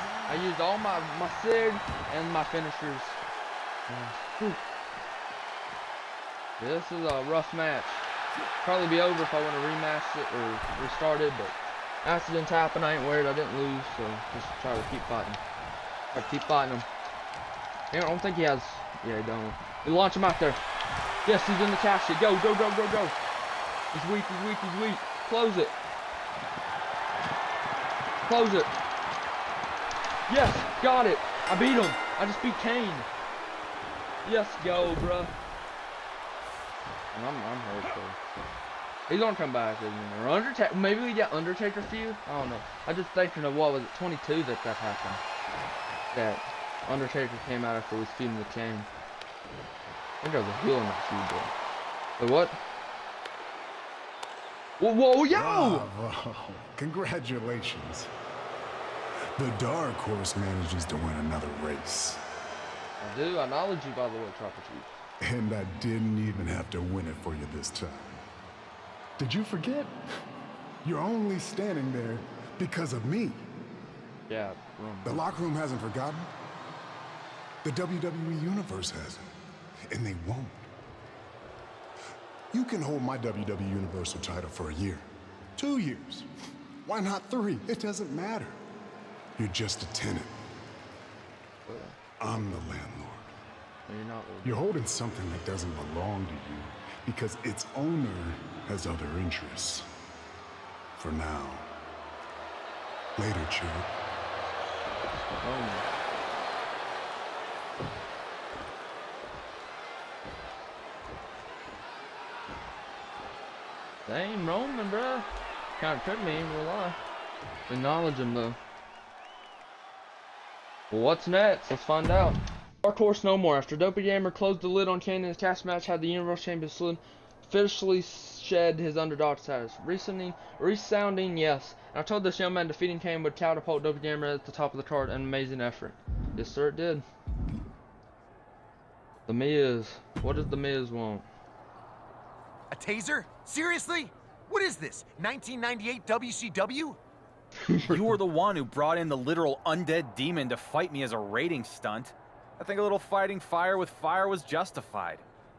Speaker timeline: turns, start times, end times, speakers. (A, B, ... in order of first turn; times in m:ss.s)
0:00.3-0:03.2 A
0:03.9-0:04.6 A
0:06.6-0:08.0 A
0:08.6-0:15.4 A
0:16.1-0:16.9 A
0:17.9-0:20.6 A
0:21.2-0:23.2 A
0:23.9-0:25.7 A
0:28.2-0:28.7 A
0:30.3-0:33.1 A
0:34.2-0:35.3 A
0:37.1-0:38.2 A
0:39.1-0:45.2 A
0:46.1-0:48.9 A
0:50.2-0:51.5 A
0:52.2-0:52.6 A
0:54.8-0:55.8 A
0:55.3-0:58.1 B
0:59.4-1:02.2 B
1:03.0-1:04.9 A
1:05.2-1:08.2 B
1:09.2-1:10.0 B
1:10.8-1:13.5 B
1:14.3-1:15.2 A
1:15.0-1:16.3 B
1:17.6-1:19.3 B
1:19.9-1:20.7 B
1:22.5-1:25.0 B
1:25.6-1:26.3 B
1:26.8-1:28.6 B
1:29.4-1:30.3 B
1:31.6-1:32.0 A
1:32.2-1:33.3 B
1:33.9-1:34.6 A
1:34.4-1:39.9 B
1:41.0-1:41.7 B
1:43.2-1:43.9 B
1:45.2-1:45.9 A
1:54.0-1:55.3 A
1:55.8-1:57.0 A
1:57.7-1:58.6 A
2:00.9-2:17.0 A
2:19.3-2:21.2 A
2:22.7-2:27.0 C
2:27.6-2:28.1 A
2:27.9-2:35.2 D